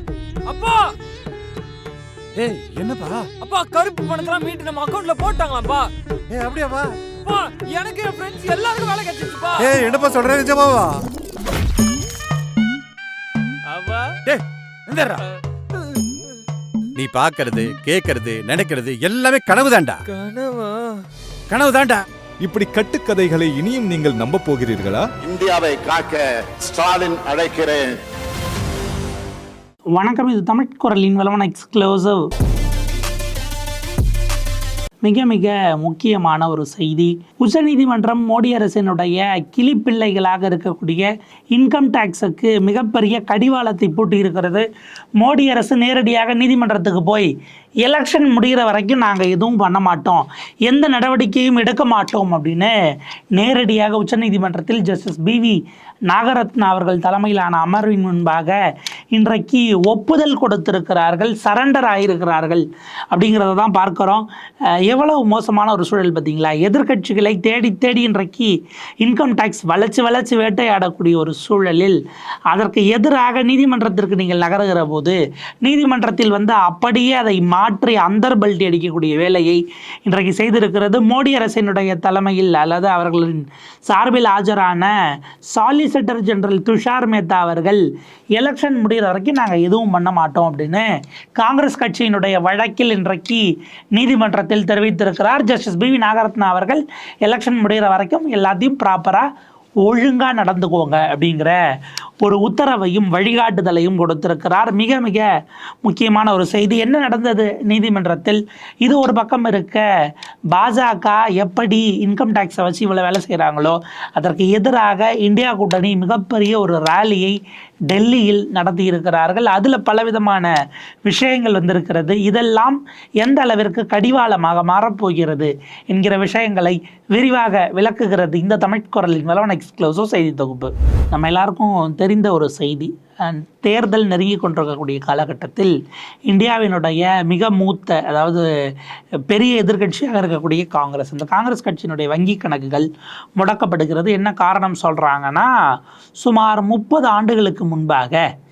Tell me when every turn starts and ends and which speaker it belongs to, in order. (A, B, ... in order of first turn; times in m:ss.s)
0:00.4-0:00.9 A
0:02.4-0:03.2 B
0:03.4-0:05.9 A
0:06.3-0:07.0 B
0:07.2-0:09.8 A
0:09.6-0:11.0 B
0:13.7-0:14.2 A
0:14.2-0:15.2 B
0:16.9-0:20.0 B
0:20.1-0:21.0 A
0:21.5-0:22.0 B
0:22.4-0:25.0 C
0:25.2-0:27.9 D
0:30.0-0:32.3 E
0:35.0-0:44.6 E
0:45.2-0:47.3 E
0:47.8-0:52.7 E
0:53.3-0:58.6 E
0:59.1-1:04.2 E
1:04.8-1:12.0 E
1:12.5-1:24.9 E
1:25.5-1:27.8 E
1:28.4-1:30.8 E
1:31.4-1:39.3 E
1:39.8-1:41.6 E
1:42.2-1:45.3 E
1:45.8-1:49.8 E
1:50.5-1:57.4 E
1:57.9-2:00.5 E
2:01.0-2:15.7 E
2:16.3-2:18.4 E
2:19.3-2:25.5 E
2:26.2-2:28.2 E